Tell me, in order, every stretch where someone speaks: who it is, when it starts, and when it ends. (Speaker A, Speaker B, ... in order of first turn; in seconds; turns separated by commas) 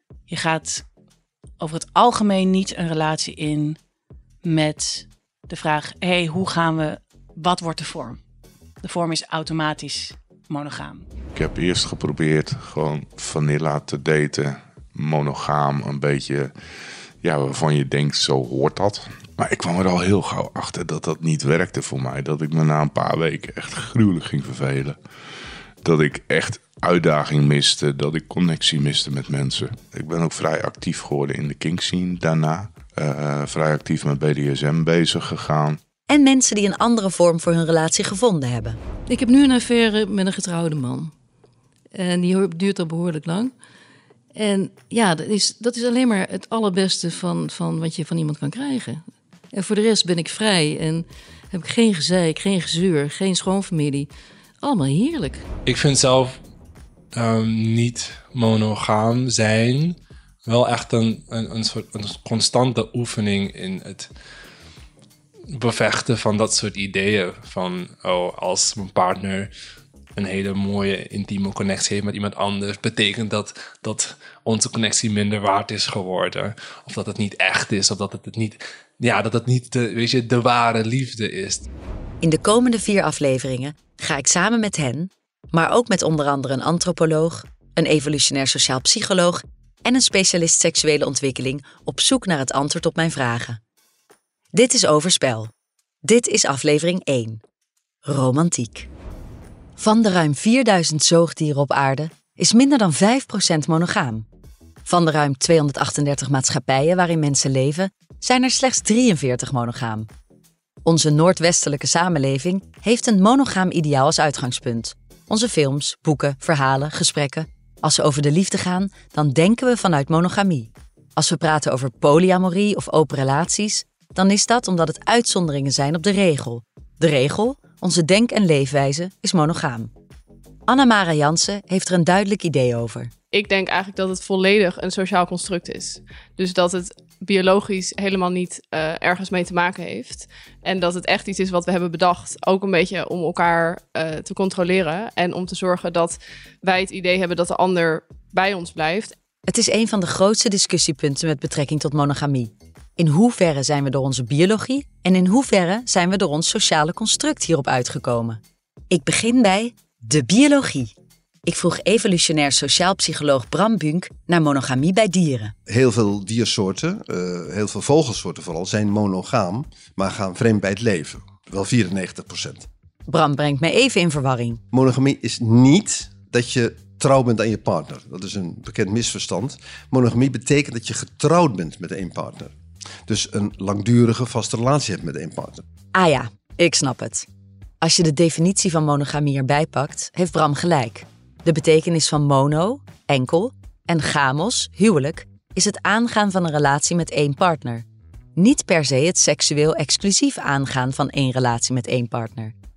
Speaker A: 0.3-0.9, Speaker A: 1.6-3.8, Speaker A: 4.4-8.2, Speaker A: 8.8-11.1, Speaker B: 11.3-16.5, Speaker B: 17.2-25.0, Speaker B: 25.8-35.8, Speaker C: 36.1-38.8, Speaker D: 39.1-41.1, Speaker D: 41.9-43.5, Speaker D: 44.4-55.5, Speaker E: 55.7-56.4, Speaker E: 57.1-64.1, Speaker E: 65.5-69.5, Speaker E: 70.2-81.7, Speaker C: 82.2-93.6, Speaker C: 94.5-95.5, Speaker C: 96.0-97.4, Speaker C: 98.1-98.9, Speaker C: 99.8-104.3, Speaker C: 104.9-110.1, Speaker C: 110.8-129.9, Speaker C: 130.7-133.1, Speaker F: 133.3-149.2, Speaker C: 149.5-160.9, Speaker C: 161.5-165.5, Speaker G: 165.7-172.7, Speaker C: 173.1-174.6, Speaker G: 174.7-182.5, Speaker G: 183.1-185.6, Speaker C: 185.9-187.3, Speaker C: 187.8-197.8, Speaker C: 198.4-202.5